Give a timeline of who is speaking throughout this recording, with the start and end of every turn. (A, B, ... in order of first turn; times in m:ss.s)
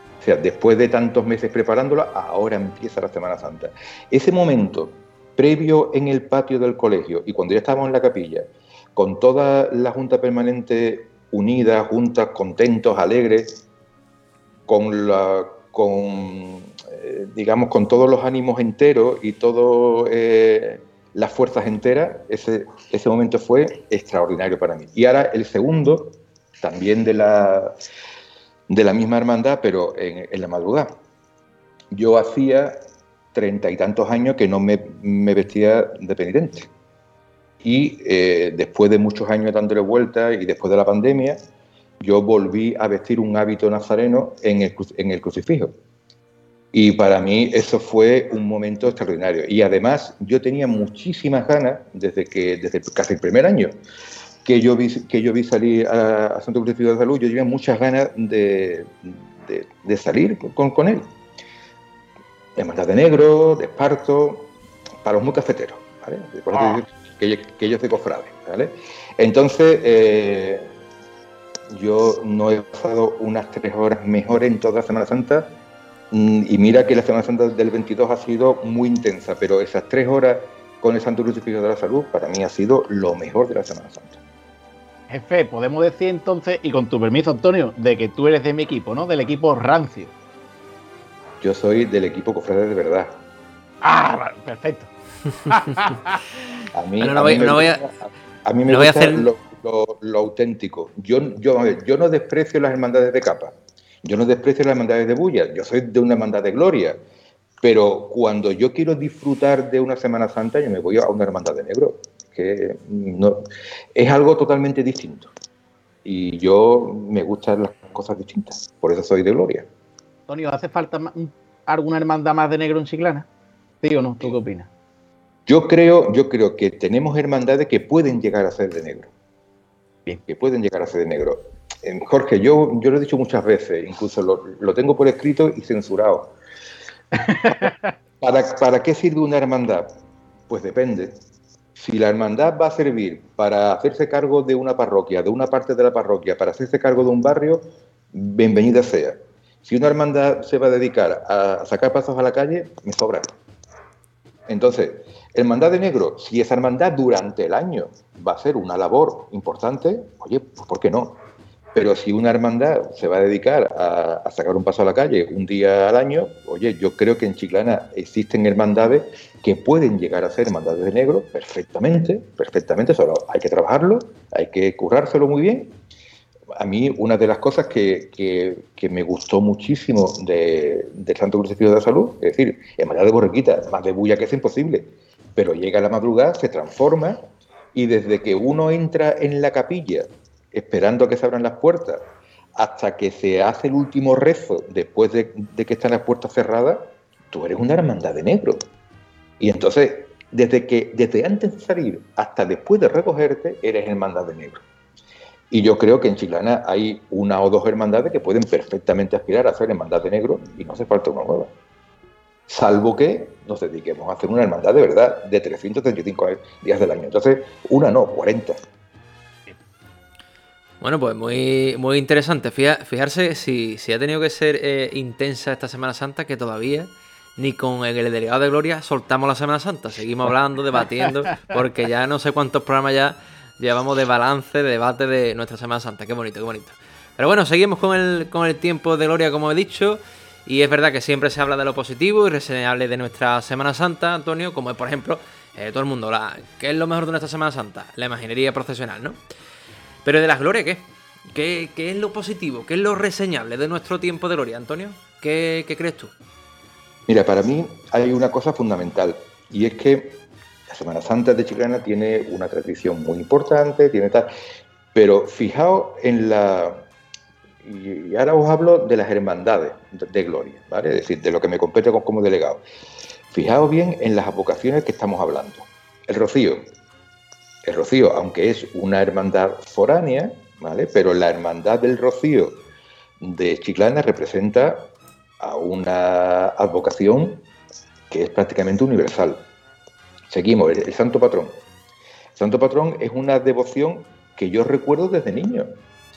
0:00.2-0:13.6 A
0:14.7-0:27.8 A
0:28.7-0:31.0 A
0:31.9-0:32.8 A
0:33.3-0:36.7 A
0:37.6-0:41.4 A
0:42.0-0:45.7 A
0:46.7-0:53.8 A
0:54.4-1:01.1 A
1:02.6-1:04.5 A
1:05.0-1:10.7 A
1:11.7-1:15.5 A
1:16.1-1:24.2 A
1:25.1-1:30.1 B
1:31.4-1:33.1 A
1:33.8-1:34.9 B
1:35.5-1:36.2 B
1:36.7-1:47.0 A
1:37.0-1:37.8 C
1:38.7-1:39.3 C
1:47.6-1:53.4 A
1:54.0-1:55.3 A
1:56.0-1:59.7 A
2:00.3-2:03.3 B
2:03.8-2:04.7 B
2:05.5-2:09.1 A
2:10.3-2:16.3 A
2:17.2-2:17.9 B
2:18.2-2:19.9 A
2:20.5-2:21.1 A
2:21.8-2:33.3 A
2:34.5-2:41.2 A
2:41.7-2:55.7 A
2:56.6-3:07.2 A
3:07.7-3:12.0 A
3:12.6-3:18.6 A
3:19.4-3:24.6 A
3:25.5-3:31.5 A
3:32.5-3:38.6 A
3:40.8-4:09.2 C
4:10.0-4:16.1 C
4:17.1-4:24.3 A
4:24.9-4:26.8 A
4:27.6-4:32.6 A
4:33.3-4:36.6 A
4:37.6-4:42.6 A
4:43.2-4:44.9 A
4:45.4-4:47.4 A
4:48.1-4:49.4 A
4:50.3-4:51.6 A
4:52.4-4:55.8 A